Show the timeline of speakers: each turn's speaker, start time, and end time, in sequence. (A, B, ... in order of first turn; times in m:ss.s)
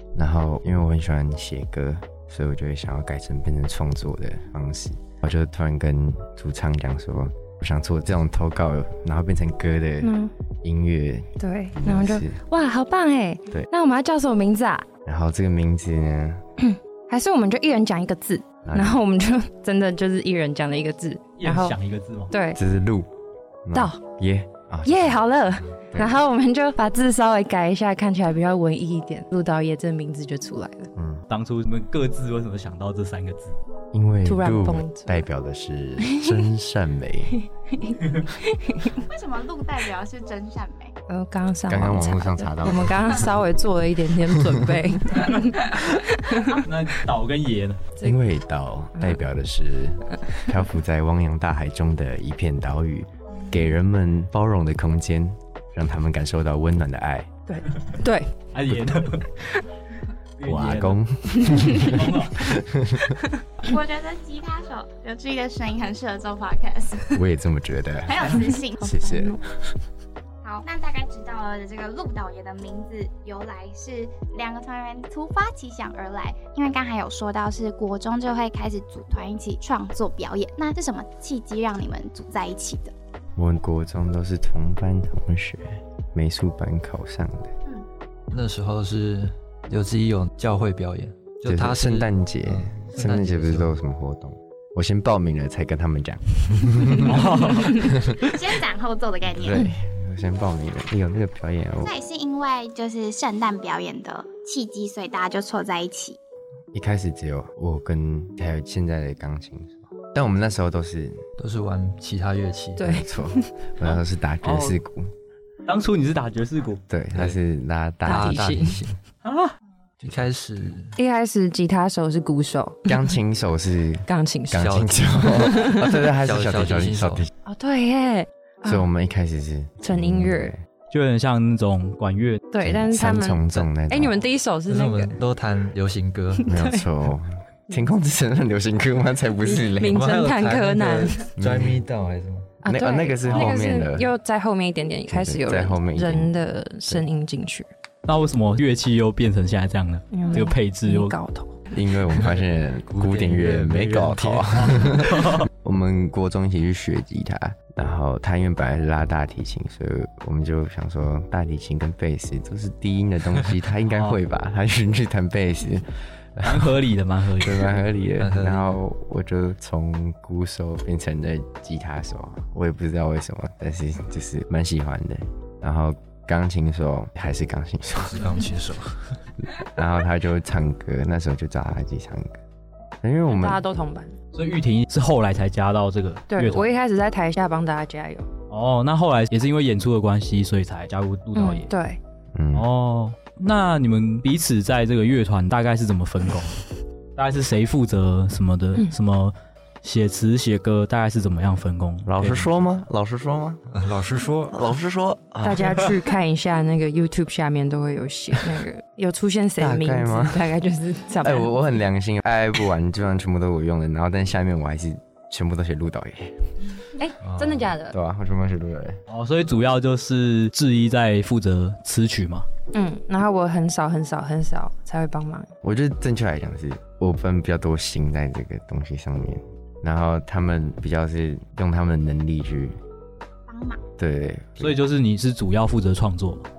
0:00.2-0:12.4 A
0:10.0-0:10.3 B
0:11.4-0:14.9 B
0:15.0-0:16.4 A
0:16.6-0:21.8 B
0:18.6-0:19.0 A
0:21.4-0:22.3 C
0:22.3-0:22.6 B
0:22.6-0:23.1 A
0:23.6-0:25.2 A
0:23.7-0:24.0 B
0:24.8-0:30.9 B
0:25.8-0:26.2 A
0:31.0-0:31.2 A
0:31.3-0:33.6 C
0:33.9-0:37.4 A
0:34.2-0:35.2 B
0:36.0-0:36.5 B
0:37.4-0:39.0 B
0:39.0-0:41.0 D
0:41.1-0:46.6 B
0:41.7-0:43.4 A
0:46.4-0:47.8 C
0:48.0-0:57.3 A
0:57.5-0:58.3 B
0:58.5-0:59.3 C
1:00.4-1:01.0 C
1:00.4-1:03.1 A
1:01.4-1:01.9 B
1:01.7-1:02.4 C
1:03.6-1:07.2 D
1:07.1-1:09.4 A
1:08.1-1:08.8 D
1:08.8-1:09.4 B
1:10.4-1:22.9 D
1:23.4-1:27.5 A
1:28.3-1:33.8 E
1:31.4-1:38.3 A
1:37.0-1:37.8 C
1:38.1-1:39.7 D
1:39.3-1:42.0 A
1:41.8-1:46.2 D
1:46.7-1:51.2 A
1:51.4-1:53.0 E
1:52.8-1:53.5 B
1:52.8-1:55.1 A
1:54.4-1:54.8 C
1:55.7-1:56.8 C
1:56.9-1:58.6 A
1:58.1-1:58.8 B
1:58.1-1:59.0 E
1:59.2-1:59.5 C
2:00.0-2:01.0 E
2:01.0-2:03.0 B
2:02.9-2:07.3 A
2:04.1-2:04.7 B
2:04.6-2:07.2 E
2:05.3-2:05.9 B
2:07.5-2:08.9 B
2:08.6-2:10.6 A
2:09.8-2:10.5 B
2:10.9-2:12.4 C
2:12.5-2:15.2 B
2:12.6-2:14.2 A
2:14.7-2:16.5 E
2:16.4-2:16.9 B
2:16.5-2:20.1 A
2:19.4-2:21.3 B
2:19.9-2:22.6 E
2:21.4-2:21.8 A
2:22.6-2:27.7 B
2:22.6-2:24.1 A
2:23.3-2:23.6 E
2:25.1-2:26.3 A
2:28.1-2:31.2 C
2:30.1-2:31.6 B
2:31.7-2:46.8 A
2:32.9-2:35.1 E
2:35.1-2:35.4 C
2:43.9-2:44.2 C
2:46.4-2:47.8 C
2:47.4-2:58.3 A
2:48.2-2:48.8 E
2:58.0-2:59.2 E
2:59.6-3:02.4 A
3:03.0-3:03.6 A
3:03.3-3:04.1 B
3:04.3-3:06.7 C
3:06.3-3:08.3 B
3:08.5-3:11.7 C
3:11.4-3:12.0 B
3:12.4-3:12.7 A
3:12.5-3:16.6 C
3:17.2-3:22.5 C
3:22.1-3:23.6 A
3:23.7-3:24.6 E
3:24.5-3:25.9 A
3:25.4-3:31.5 B
3:29.6-3:30.5 A
3:31.2-3:36.4 A
3:37.0-3:38.0 B
3:37.2-3:37.7 E
3:37.9-3:39.0 A
3:39.1-3:42.5 C
3:42.7-3:45.5 B
3:45.6-3:52.8 A
3:53.5-3:53.8 D
3:54.0-3:54.8 A
3:54.6-3:56.5 C